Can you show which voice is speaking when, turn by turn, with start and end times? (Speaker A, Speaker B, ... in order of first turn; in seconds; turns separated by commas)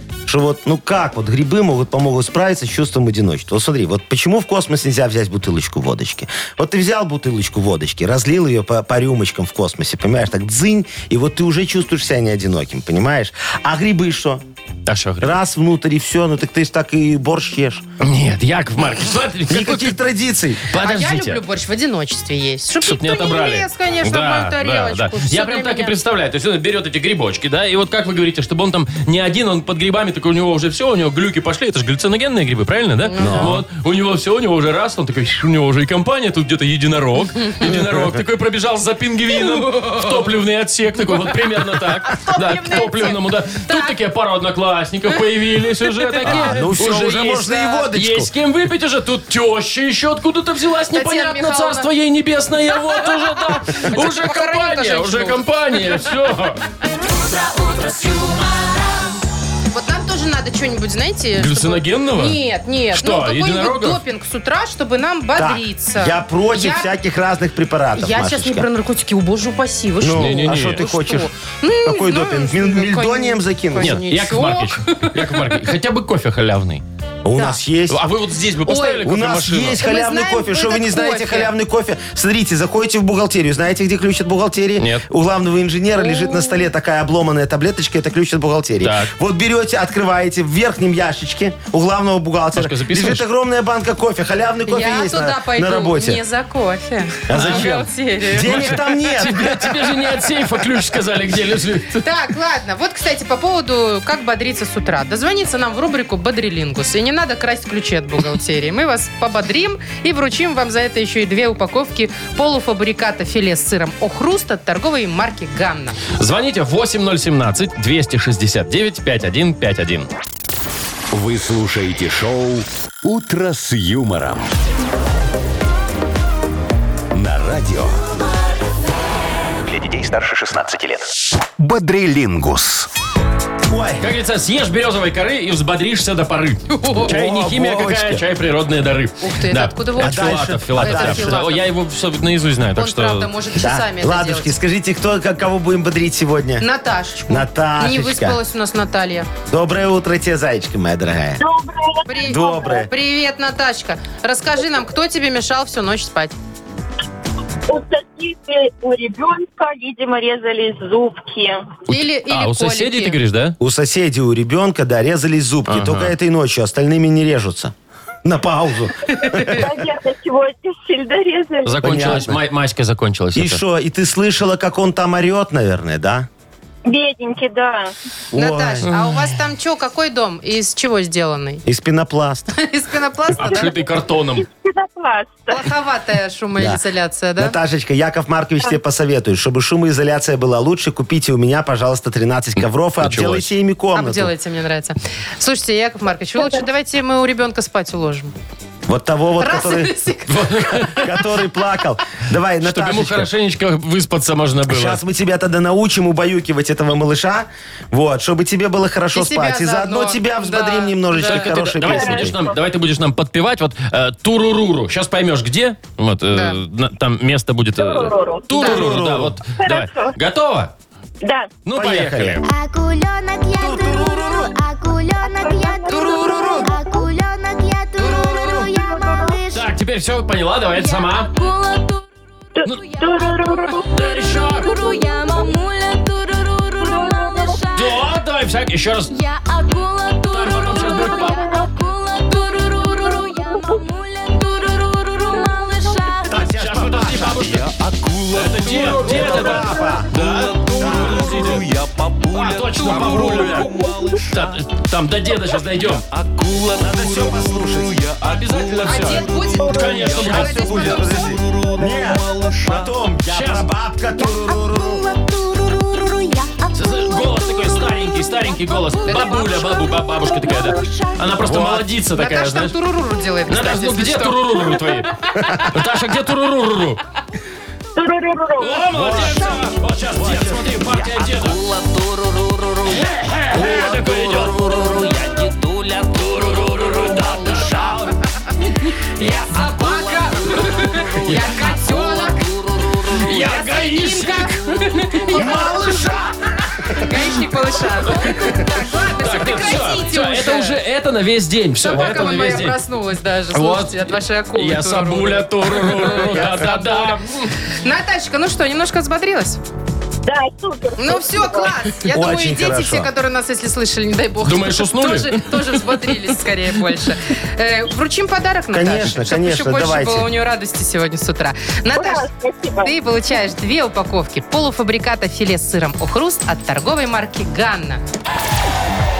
Speaker A: 0.2-14.4, Speaker B: 14.8-15.4, Speaker A: 15.2-17.8, Speaker B: 18.0-20.0, Speaker A: 19.5-20.7, Speaker B: 20.7-21.4, Speaker C: 20.8-26.0, Speaker B: 22.8-56.6, Speaker C: 33.0-33.6, Speaker A: 33.2-33.6, Speaker C: 39.6-40.0, Speaker C: 42.0-43.9, Speaker C: 46.0-46.6, Speaker A: 46.2-48.3, Speaker C: 50.9-51.9, Speaker C: 52.9-55.5, Speaker D: 56.9-59.2, Speaker C: 59.7-66.9, Speaker B: 61.4-62.4, Speaker B: 62.9-64.0, Speaker A: 65.3-68.7, Speaker C: 68.0-75.3, Speaker A: 70.0-71.3, Speaker B: 70.1-70.8, Speaker A: 71.8-74.0, Speaker B: 73.8-76.8, Speaker A: 77.2-78.0, Speaker B: 77.9-79.8, Speaker C: 78.7-79.0, Speaker A: 79.0-96.2, Speaker C: 79.8-81.5, Speaker B: 84.8-85.0, Speaker C: 86.0-86.7, Speaker B: 88.8-89.1, Speaker B: 92.5-93.2, Speaker C: 94.7-98.7, Speaker A: 97.3-99.9, Speaker B: 97.3-97.8, Speaker B: 98.3-102.0, Speaker C: 102.0-116.0, Speaker B: 116.1-120.1, Speaker E: 121.1-124.5, Speaker E: 127.1-128.0, Speaker E: 129.6-132.9, Speaker A: 133.7-134.1, Speaker B: 134.0-143.3, Speaker C: 136.7-137.1, Speaker A: 137.0-138.2, Speaker C: 139.2-141.6, Speaker A: 140.0-141.5, Speaker C: 142.8-144.5, Speaker A: 143.5-146.7, Speaker C: 146.6-149.3, Speaker A: 147.3-148.4, Speaker A: 149.5-151.4, Speaker F: 151.4-152.6, Speaker C: 152.1-156.3, Speaker A: 152.2-152.9, Speaker F: 157.7-161.8, Speaker C: 161.9-163.2, Speaker B: 161.9-163.6, Speaker A: 163.6-169.7, Speaker B: 165.7-166.1, Speaker C: 169.2-169.6, Speaker F: 169.5-172.1, Speaker B: 171.6-173.6, Speaker A: 171.8-172.4, Speaker A: 173.3-176.3, Speaker F: 176.8-177.9, Speaker A: 178.3-178.9, Speaker C: 178.3-181.6, Speaker B: 178.9-179.1, Speaker A: 181.7-182.5, Speaker C: 182.5-183.7, Speaker B: 183.4-184.4, Speaker F: 183.5-185.6, Speaker C: 185.5-187.6, Speaker A: 187.4-194.3, Speaker B: 193.0-193.5, Speaker C: 193.9-198.3, Speaker A: 198.9-199.9, Speaker C: 199.4-201.0, Speaker B: 200.3-201.1, Speaker A: 200.8-203.3, Speaker B: 202.6-205.0, Speaker A: 204.7-212.4, Speaker C: 209.1-211.5, Speaker B: 211.2-220.7, Speaker F: 211.9-212.6, Speaker C: 216.3-216.6, Speaker F: 217.8-218.7, Speaker C: 218.6-218.8, Speaker A: 218.6-219.4, Speaker F: 219.6-220.1, Speaker F: 221.2-221.6, Speaker B: 221.7-222.4, Speaker A: 221.7-222.4, Speaker D: 222.4-229.7, Speaker A: 223.6-224.5, Speaker F: 225.2-227.0, Speaker A: 225.9-226.7, Speaker A: 228.0-228.7, Speaker F: 228.7-229.4, Speaker B: 229.5-231.3, Speaker D: 230.7-232.1, Speaker F: 232.6-233.9, Speaker D: 232.6-238.2, Speaker B: 233.9-234.7, Speaker F: 234.6-235.4, Speaker F: 236.8-237.6, Speaker B: 237.7-239.1, Speaker D: 239.1-246.5, Speaker B: 240.3-241.5, Speaker F: 243.5-243.8, Speaker A: 246.3-247.5, Speaker B: 246.4-247.7, Speaker G: 247.3-254.5, Speaker B: 248.3-251.6, Speaker A: 248.8-250.1, Speaker A: 250.8-251.4, Speaker B: 252.3-253.7, Speaker B: 254.3-256.0, Speaker G: 255.8-262.9, Speaker A: 256.8-257.9, Speaker B: 258.2-260.9, Speaker C: 258.8-261.1, Speaker A: 260.1-265.0, Speaker B: 263.3-263.7, Speaker D: 264.2-271.4, Speaker B: 266.7-272.7, Speaker C: 269.1-269.4, Speaker A: 271.4-271.9, Speaker C: 272.1-275.7, Speaker B: 273.5-277.0, Speaker F: 277.9-278.9, Speaker B: 278.6-281.6, Speaker A: 278.9-279.6, Speaker A: 280.1-281.3, Speaker G: 281.7-282.7, Speaker B: 282.9-288.2, Speaker A: 283.5-285.2, Speaker C: 289.2-292.4, Speaker G: 289.8-293.3, Speaker B: 291.1-292.0, Speaker B: 293.1-296.3, Speaker C: 293.2-296.1, Speaker A: 295.3-296.3, Speaker C: 296.9-300.8, Speaker B: 298.1-298.5, Speaker B: 299.2-302.8, Speaker C: 301.8-309.6, Speaker B: 303.5-307.5, Speaker F: 310.2-311.7, Speaker C: 310.9-322.3, Speaker A: 312.1-313.1, Speaker B: 314.4-316.2, Speaker A: 318.7-320.3, Speaker F: 321.9-322.9, Speaker C: 322.8-328.0